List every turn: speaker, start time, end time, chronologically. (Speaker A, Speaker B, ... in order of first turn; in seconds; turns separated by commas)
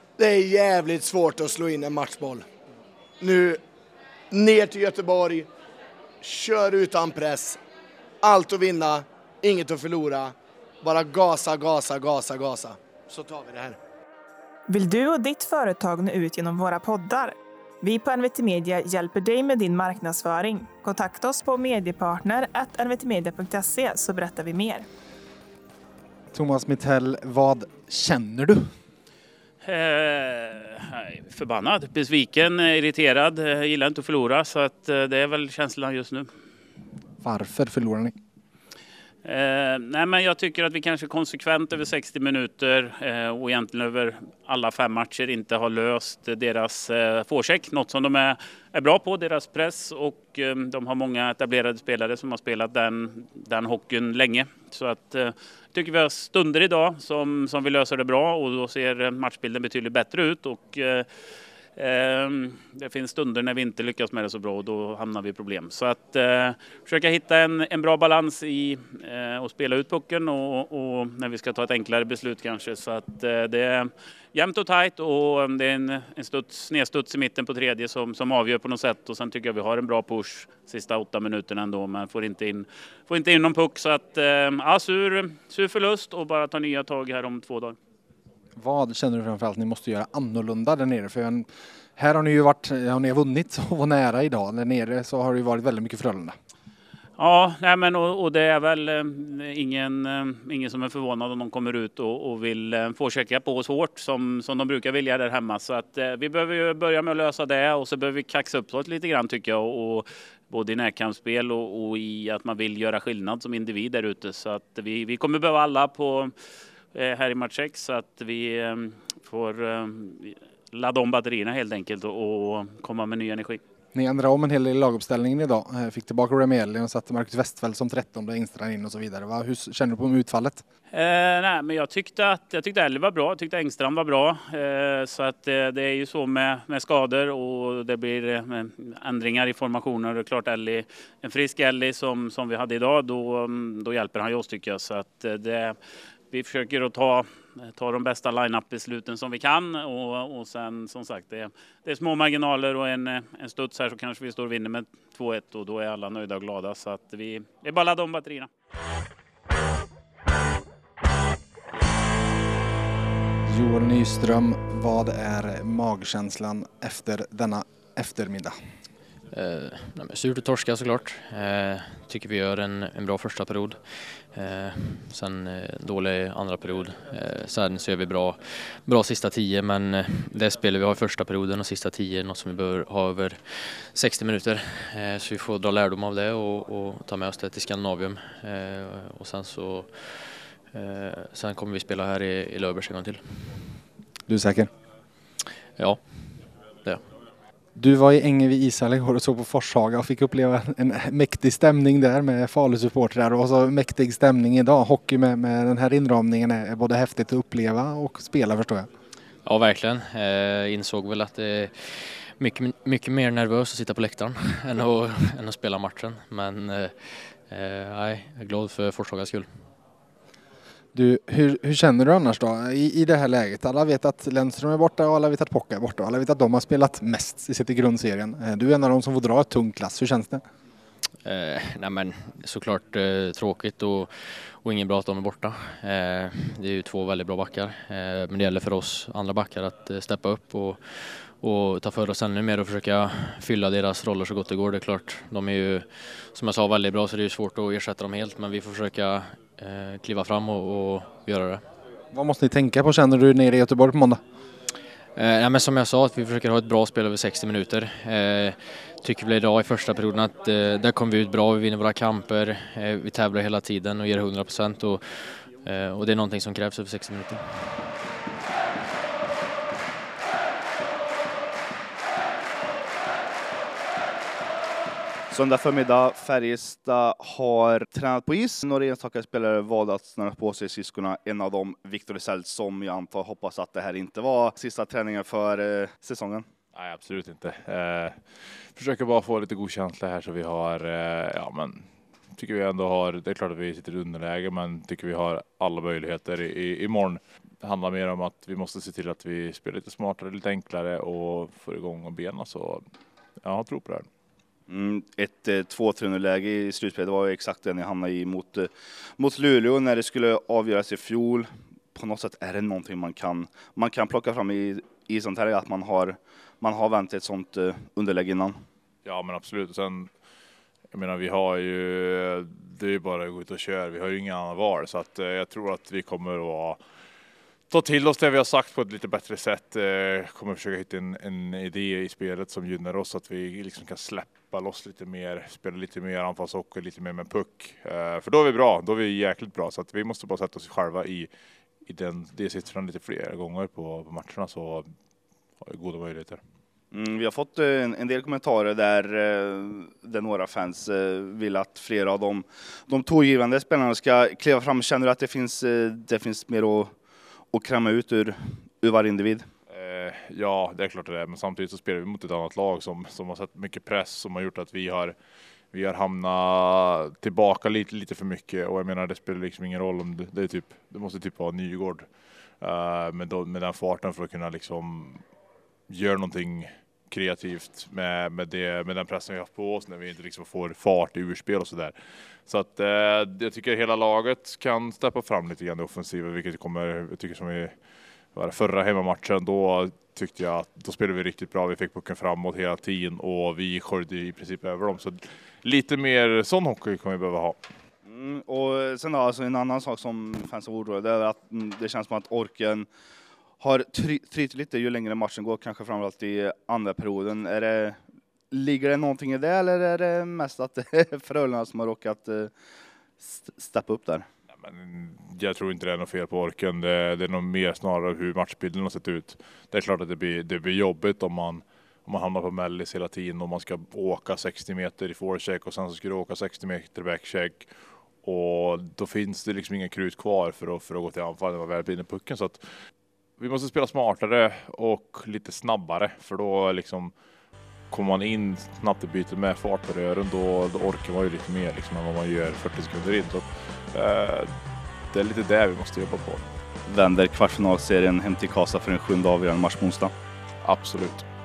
Speaker A: 0.2-2.4, Speaker A: 3.2-3.6, Speaker A: 4.3-5.5, Speaker A: 6.2-7.6, Speaker A: 8.2-13.8, Speaker B: 14.7-24.8, Speaker C: 26.3-28.6, Speaker D: 29.6-36.3, Speaker C: 37.2-38.1, Speaker D: 39.2-61.1, Speaker D: 61.8-87.8, Speaker C: 88.6-91.5, Speaker C: 92.0-96.3, Speaker D: 97.2-116.3, Speaker D: 116.9-123.6, Speaker C: 123.9-130.6, Speaker D: 130.9-145.8, Speaker D: 146.3-158.5, Speaker C: 163.5-168.5, Speaker E: 169.3-173.8, Speaker E: 174.3-193.6, Speaker C: 194.3-194.7, Speaker E: 195.8-197.0, Speaker C: 197.8-208.9, Speaker E: 209.4-219.5, Speaker C: 220.9-230.4, Speaker E: 231.2-251.6, Speaker C: 252.1-254.2, Speaker E: 255.2-267.8, Speaker F: 275.3-286.4, Speaker G: 286.7-288.2, Speaker G: 288.7-302.8, Speaker G: 303.4-304.1, Speaker F: 304.7-318.6, Speaker G: 319.0-320.1, Speaker G: 320.9-326.8, Speaker G: 327.7-341.3, Speaker G: 341.9-344.9, Speaker G: 345.6-346.4, Speaker F: 346.9-356.9, Speaker F: 357.5-359.4, Speaker G: 359.7-365.1, Speaker G: 365.7-372.1, Speaker G: 372.6-375.2, Speaker G: 375.9-381.9, Speaker G: 382.4-387.7, Speaker G: 388.3-397.6, Speaker F: 398.1-402.9, Speaker F: 403.6-408.0, Speaker F: 408.5-412.5, Speaker F: 413.2-414.2, Speaker G: 414.6-427.7, Speaker G: 428.2-432.6, Speaker G: 433.4-437.1, Speaker G: 437.9-444.5, Speaker G: 445.1-446.4, Speaker F: 446.9-450.1, Speaker G: 450.6-451.2